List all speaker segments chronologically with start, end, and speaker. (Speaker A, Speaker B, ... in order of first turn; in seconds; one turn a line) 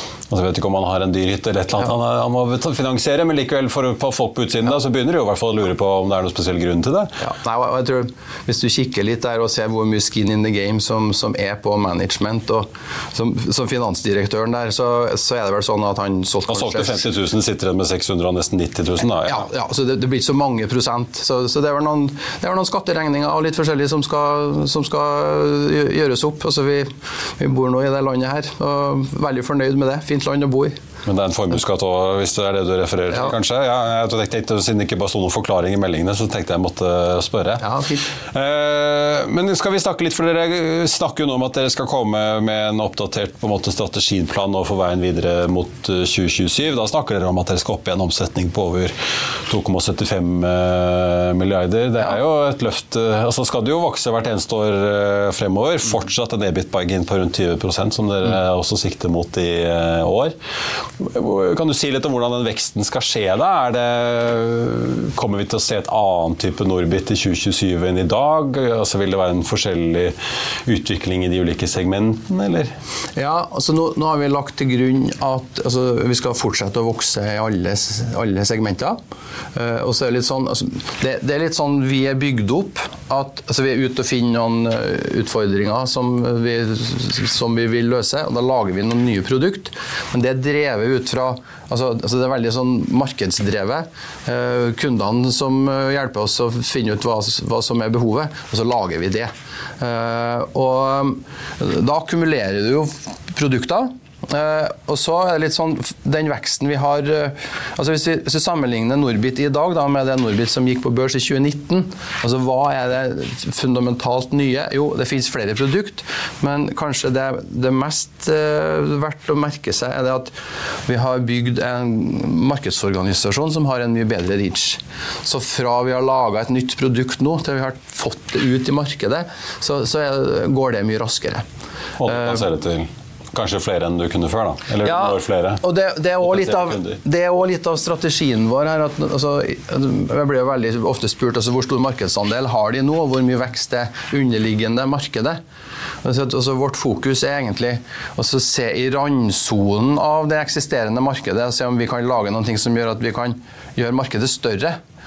Speaker A: 0.3-7.1
Speaker B: 7.2-17.1
Speaker A: 16.5-19.5
Speaker B: 19.2-30.8
Speaker A: 31.0-60.3
Speaker B: 37.6-38.1
Speaker A: 61.0-72.7
Speaker B: 73.2-79.0
Speaker B: 79.5-120.3
Speaker B: 120.8-131.4
Speaker A: 132.0-135.6
Speaker B: 132.0-132.4
Speaker B: 134.8-145.4
Speaker A: 136.2-137.0
Speaker B: 146.0-154.8